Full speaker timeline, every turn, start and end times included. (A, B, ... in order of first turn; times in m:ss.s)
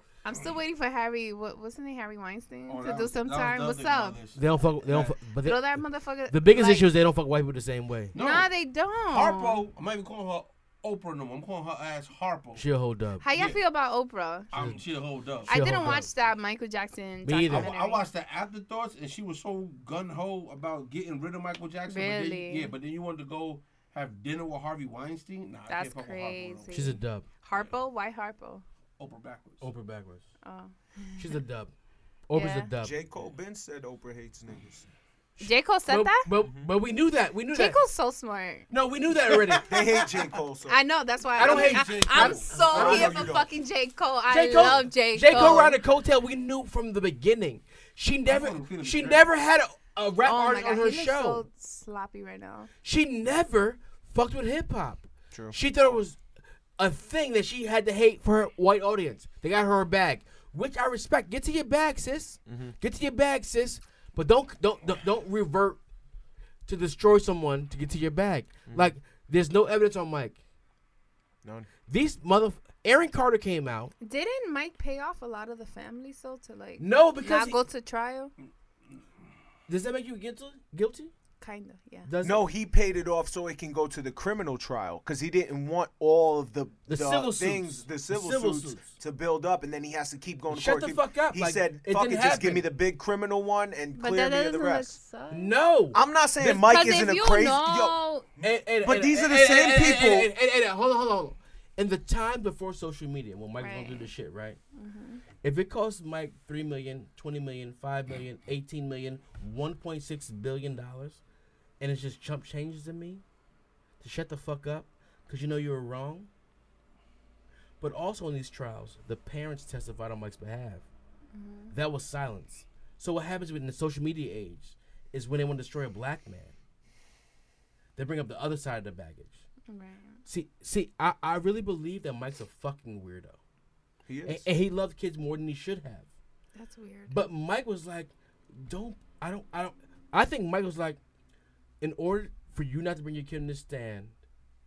0:00.2-0:04.2 A
0:02.7-0:05.2 B
0:04.3-0:08.1 C
0:05.4-0:06.9 A
0:08.1-0:08.5 B
0:08.1-0:09.6 A
0:09.1-0:12.6 B
0:12.6-0:13.2 C
0:13.2-0:14.5 A
0:13.3-0:13.6 B
0:14.5-0:14.8 C
0:14.5-0:15.6 B
0:15.4-0:16.1 C
0:15.5-0:18.1 A
0:17.2-0:17.7 C
0:17.5-0:26.7 B
0:21.9-0:22.7 A
0:25.7-0:28.6 A
0:26.7-0:27.3 C
0:29.0-0:29.7 B
0:29.6-0:30.2 C
0:30.4-0:31.4 A
0:31.2-0:31.7 C
0:32.3-0:32.9 C
0:32.3-0:32.7 A
0:32.8-0:34.9 D
0:35.4-0:37.8 C
0:35.4-0:36.3 A
0:36.4-0:36.7 D
0:37.5-0:38.7 A
0:38.7-0:39.8 C
0:39.2-0:40.1 B
0:39.7-0:40.8 D
0:40.6-0:45.8 A
0:41.4-0:43.3 C
0:41.4-0:43.4 B
0:42.7-0:43.5 D
0:44.3-0:51.4 C
0:45.3-0:45.6 B
0:48.3-0:49.3 B
0:50.2-0:52.7 A
0:52.8-0:56.2 C
0:55.3-0:55.6 D
0:56.8-1:05.8 C
1:02.5-1:02.7 D
1:06.7-1:10.4 C
1:08.7-1:08.9 D
1:11.4-1:11.7 D
1:11.9-1:13.9 C
1:14.0-1:18.3 A
1:16.8-1:17.6 C
1:19.7-1:21.1 C
1:21.4-1:22.1 A
1:22.0-1:22.5 C
1:22.2-1:35.0 D
1:26.9-1:28.9 C
1:30.5-1:32.7 C
1:33.9-1:35.5 A
1:35.3-1:36.8 C
1:35.9-1:38.0 D
1:36.6-1:38.3 A
1:38.4-1:44.6 C
1:38.8-1:40.3 D
1:43.6-1:44.1 A
1:44.7-1:45.2 A
1:45.4-1:51.2 C
1:51.8-1:53.2 C
1:54.0-1:56.3 C
1:57.8-2:00.8 C
2:01.3-2:01.7 A
2:01.7-2:06.5 C
2:08.0-2:09.4 C
2:09.7-2:10.2 A
2:10.2-2:13.4 C
2:14.0-2:14.5 D
2:14.2-2:16.1 C
2:16.5-2:17.2 A
2:17.1-2:21.0 C
2:21.8-2:24.1 C